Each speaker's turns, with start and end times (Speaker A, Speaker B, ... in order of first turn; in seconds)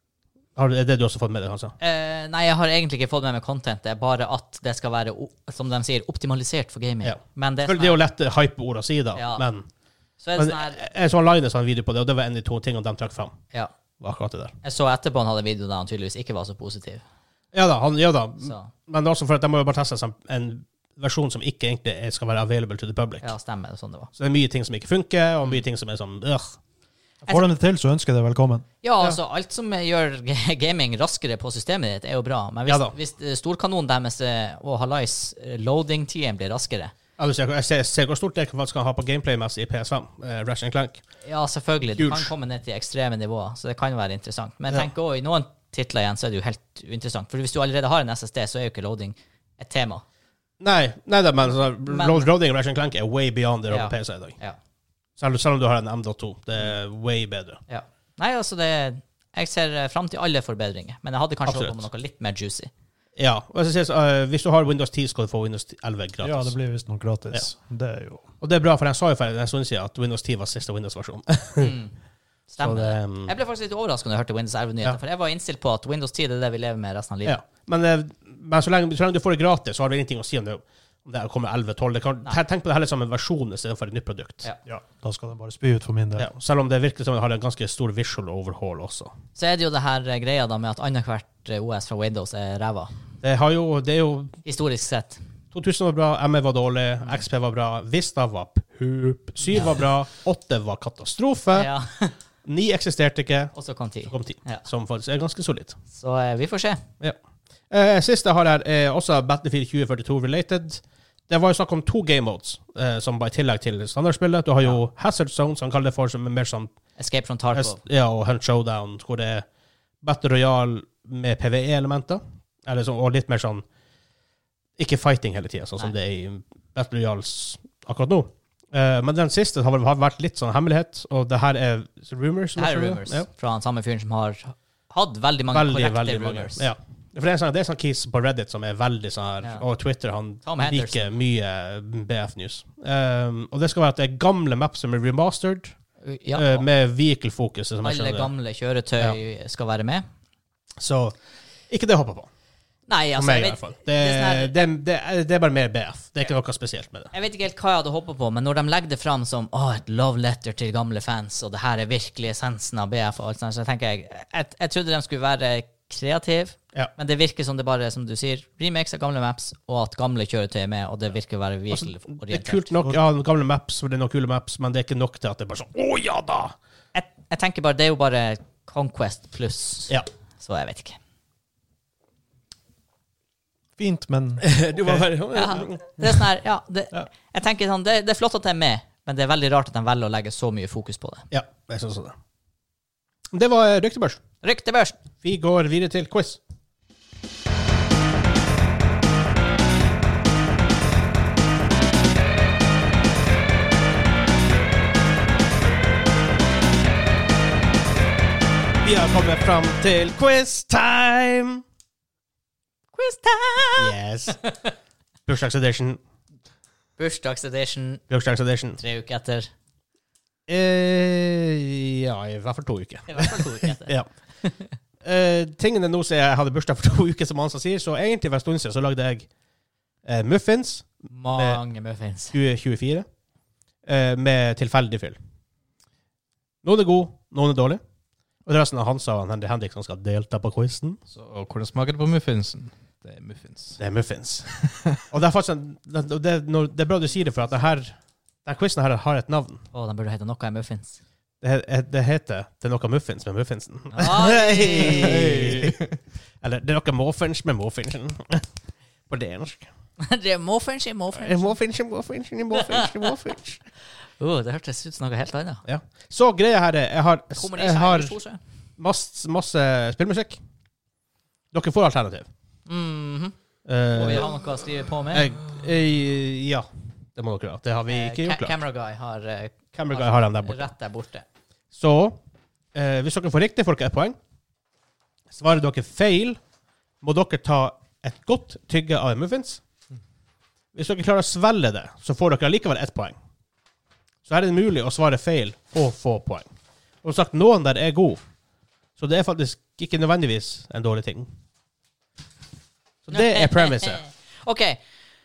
Speaker A: 0.6-1.8, 7.0-9.7, 10.4-13.3, 14.0-14.5, 17.5-23.3, 24.1-26.6, 32.7-32.9, 37.2-41.0, 42.0-42.3, 50.6-54.4, 55.2-57.6, 61.5-61.8, 63.2-66.5, 68.4-71.8, 72.6-73.3, 77.2-84.5, 86.2-89.1, 93.2-94.4, 95.5-101.7, 102.4-103.5, 104.1-105.8, 107.7-116.7, 117.5-119.4, 120.0-123.6, 124.8-133.3, 135.5-145.7, 146.3-148.3, 150.8-151.1, 151.7-152.3, 153.2-157.1, 171.7-176.5, 184.4-185.8, 191.3-192.1, 193.3-194.2, 195.2-196.4, 208.8-211.6, 213.8-214.4, 215.3-216.0, 218.1-218.8, 220.5-224.1, 225.0-229.3, 230.0-231.6, 232.3-233.1, 233.8-235.2, 236.6-237.8, 238.4-241.0, 243.8-244.5, 245.1-249.6, 251.4-255.8, 256.4-258.4, 259.1-259.7, 261.1-263.6, 265.6-268.2, 268.8-270.4, 271.5-272.3, 273.6-274.4, 275.1-278.5, 279.7-280.7, 281.7-282.2, 282.7-284.2, 285.3-286.4, 287.0-289.6, 290.7-293.1, 294.2-296.5, 297.0-298.2, 299.0-301.3, 303.0-304.0
Speaker B: 1.8-8.0, 9.1-9.4, 10.2-10.8, 14.6-17.0, 18.4-18.7, 23.2-24.1, 28.8-36.9, 41.2-50.0, 51.9-52.3, 53.7-54.6, 57.7-62.7, 71.6-71.9, 72.5-77.4, 89.3-92.9, 94.4-95.2, 99.5-99.8, 101.5-102.2, 103.5-104.6, 105.9-106.8, 117.0-117.8, 132.6-136.7, 140.4-141.1, 146.0-146.7, 147.8-150.1, 152.9-154.7, 157.1-172.7, 176.9-181.0, 185.3-191.2, 194.4-195.0, 212.9-214.7, 217.0-218.0, 218.8-219.5, 223.1-224.7, 231.1-232.3, 249.7-251.0, 253.9-255.2, 260.0-261.5, 262.5-263.1, 264.2-265.6, 267.4-268.4, 272.6-273.3, 273.9-275.3, 277.9-281.2, 303.1-304.8
Speaker C: 27.3-28.6, 66.2-68.2, 84.7-86.3, 183.8-185.1
Speaker D: 241.1-243.8, 254.9-255.9